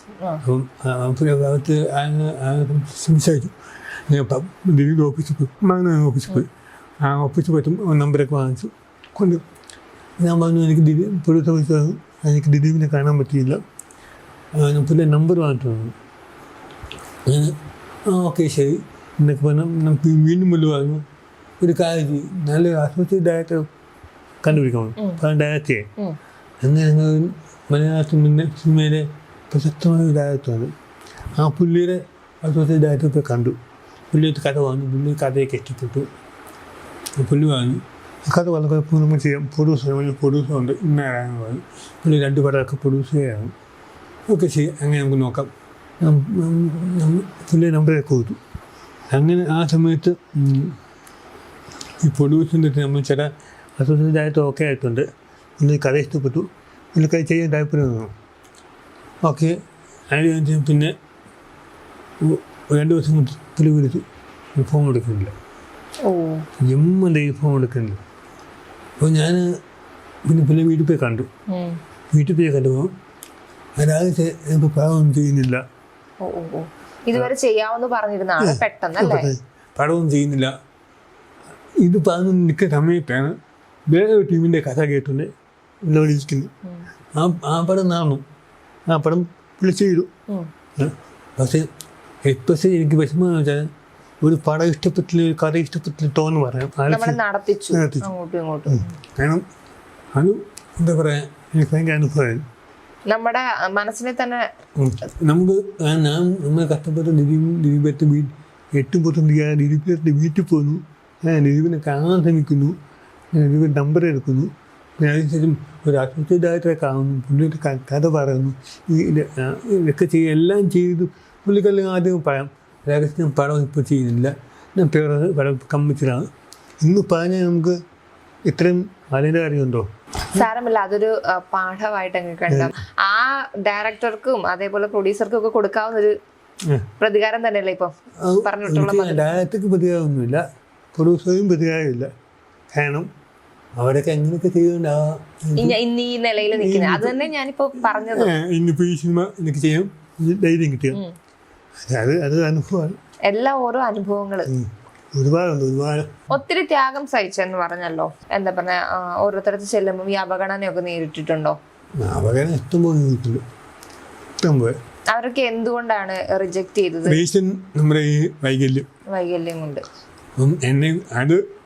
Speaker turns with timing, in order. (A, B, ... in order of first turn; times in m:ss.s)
0:00.4-0:03.6 A
0:04.1-0:06.5 A
0:07.0-0:09.4 A
0:10.2-0:13.6 A
0:14.6-0:15.9 A
0:17.2-0:21.0 A
0:21.6-0:23.6 A
0:24.4-0:25.9 A
0:26.6-0:30.7 A
0:31.3-0:33.6 A
0:34.1-0:36.1 A
0:37.2-0:43.5 A
0:44.3-0:45.5 A
0:46.0-0:48.4 A
0:49.1-0:50.8 A
0:52.0-0:55.1 A
0:55.6-0:58.1 A
0:59.2-0:59.6 A
1:00.1-1:00.9 A
1:02.2-1:04.0 A
1:04.6-1:05.3 A
1:06.0-1:06.4 B
1:06.6-1:08.0 A
1:09.0-1:09.5 A
1:10.2-1:11.3 A
1:11.5-1:11.8 B
1:12.1-1:12.9 A
1:13.8-1:15.6 A
1:16.2-1:19.3 B
1:18.4-1:20.5 A
1:21.8-1:25.3 A
1:25.8-1:26.5 A
1:27.1-1:28.2 A
1:28.9-1:30.1 A
1:30.8-1:31.7 A
1:32.2-1:33.7 A
1:34.2-1:37.2 A
1:36.9-1:38.9 B
1:37.7-1:38.1 A
1:38.7-1:39.4 A
1:40.1-1:42.4 A
1:43.1-1:44.5 B
1:44.8-1:52.8 A
1:53.3-2:06.3 A
2:06.8-2:07.8 A
2:08.4-2:10.4 A
2:10.3-2:16.2 B
2:17.0-2:19.3 B
2:18.2-2:20.4 A
2:20.9-2:22.1 A
2:22.7-2:23.1 A
2:23.8-2:25.8 A
2:25.6-2:28.3 B
2:26.4-2:31.0 A
2:31.8-2:33.0 A
2:33.3-2:34.5 B
2:34.5-2:36.3 A
2:36.3-2:41.6 B
2:42.0-2:43.4 A
2:44.4-2:44.8 A
2:45.1-2:47.2 B
2:47.0-2:48.9 A
2:49.1-2:49.8 B
2:50.4-2:51.4 A